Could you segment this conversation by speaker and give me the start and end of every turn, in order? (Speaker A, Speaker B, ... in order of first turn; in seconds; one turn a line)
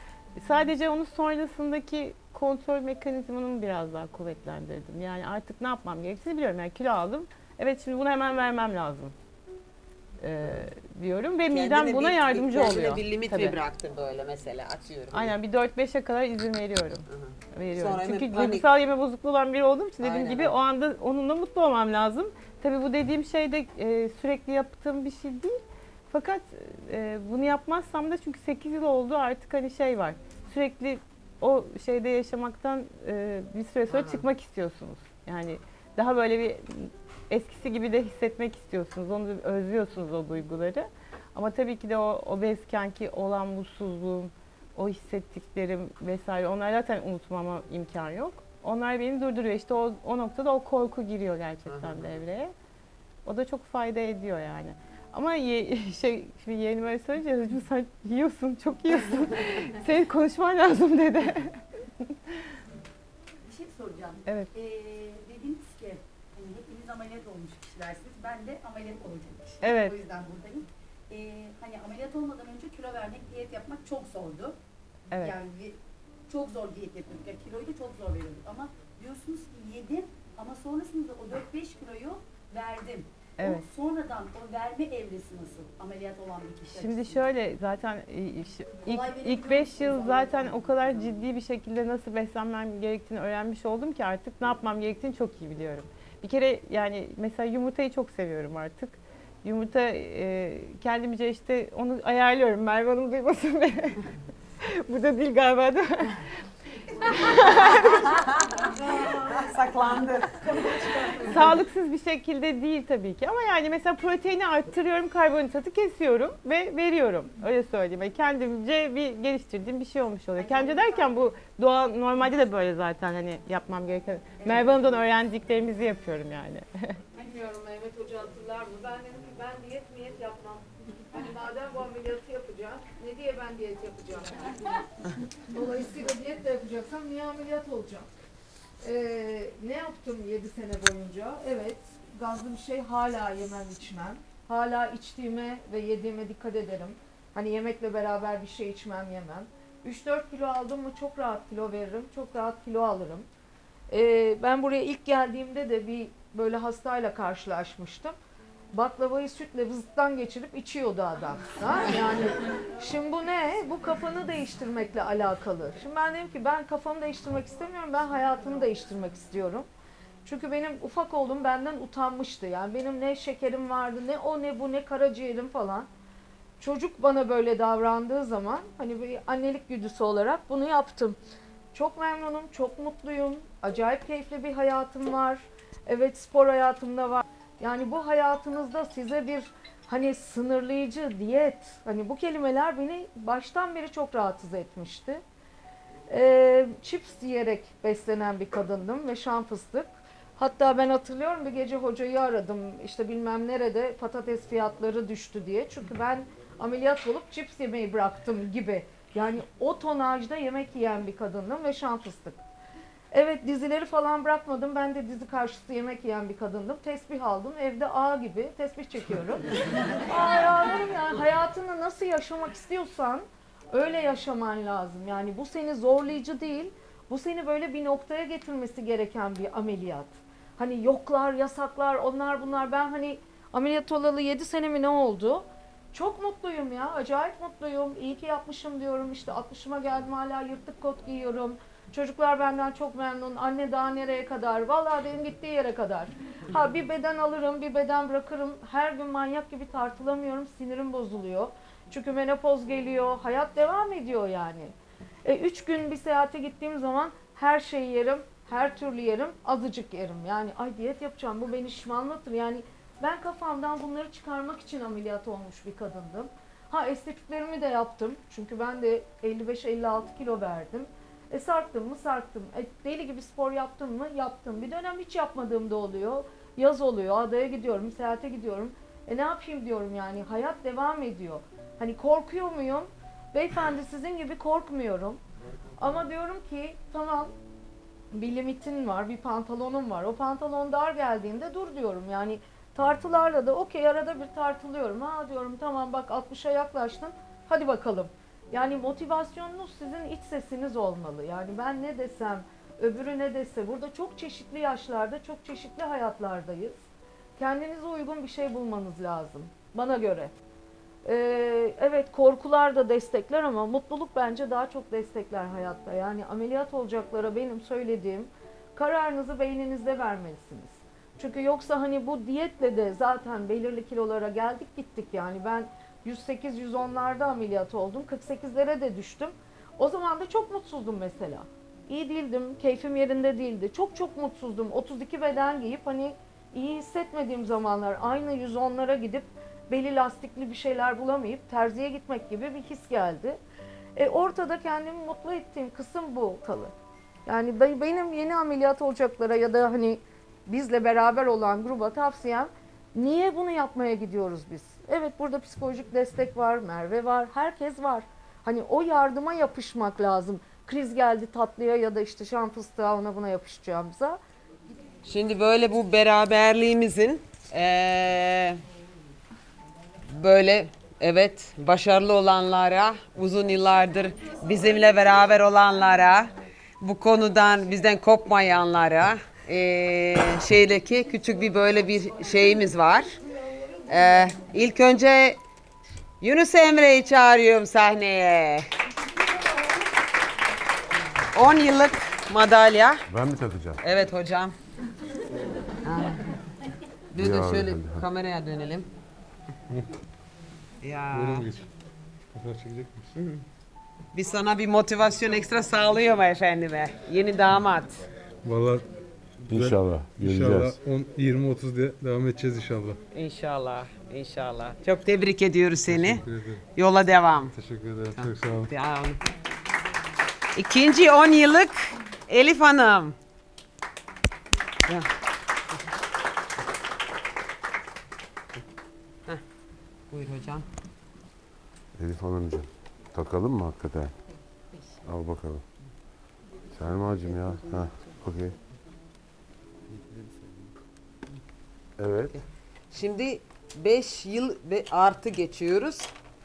Speaker A: 0.3-9.1
Speaker A: 10.2-13.6
Speaker B: 11.5-15.3
Speaker A: 15.1-52.5
Speaker B: 17.1-18.7
Speaker B: 20.0-20.5
Speaker B: 33.9-34.2
Speaker B: 51.6-52.2
Speaker A: 53.2-62.1
Speaker C: 63.5-74.5
Speaker A: 69.6-70.0
Speaker C: 75.1-75.8
Speaker C: 76.3-87.3
Speaker A: 83.4-83.6
Speaker A: 86.7-104.0
Speaker C: 88.8-91.2
Speaker A: 104.6-106.2
Speaker A: 107.1-108.0
Speaker B: 109.3-110.4
Speaker A: 111.2-127.0
Speaker C: 120.3-121.2
Speaker C: 124.4-125.1
Speaker D: 127.1-134.6
Speaker D: 135.5-138.1
Speaker D: 138.8-153.2
Speaker D: 153.9-158.1
Speaker D: 158.7-169.7
Speaker D: 170.2-175.9
Speaker D: 176.6-181.2
Speaker D: 181.7-195.2
Speaker D: 196.1-212.4
Speaker D: 213.1-219.4
Speaker D: 220.1-254.7
Speaker D: 255.2-285.2
Speaker D: 285.8-287.3
Speaker D: 288.1-306.8
Speaker D: 307.4-310.3
Speaker D: 311.0-343.4
Speaker D: 343.9-346.7
Speaker D: 347.2-364.2
Speaker B: 365.0-368.6
Speaker B: 370.1-383.2
Speaker B: 383.9-385.4
Speaker B: 386.2-388.6
Speaker B: 391.3-393.0
Speaker E: 393.1-393.8
Speaker B: 393.8-394.5
Speaker B: 395.8-396.2
Speaker B: 397.1-398.9
Speaker E: 397.2-398.0
Speaker B: 400.8-401.5
Speaker F: 401.1-401.6
Speaker F: 402.3-403.1
Speaker B: 403.1-403.4
Speaker B: 404.1-408.1
Speaker F: 408.4-408.8
Speaker E: 409.5-410.8
Speaker F: 409.5-413.0
Speaker B: 413.1-417.5
Speaker F: 415.8-416.6
Speaker F: 417.5-418.7
Speaker B: 418.1-419.2
Speaker B: 420.5-423.1
Speaker B: 430.1-430.6
Speaker E: 431.9-434.1
Speaker E: 435.0-435.6
Speaker E: 436.7-438.6
Speaker E: 442.0-442.3
Speaker B: 442.3-446.1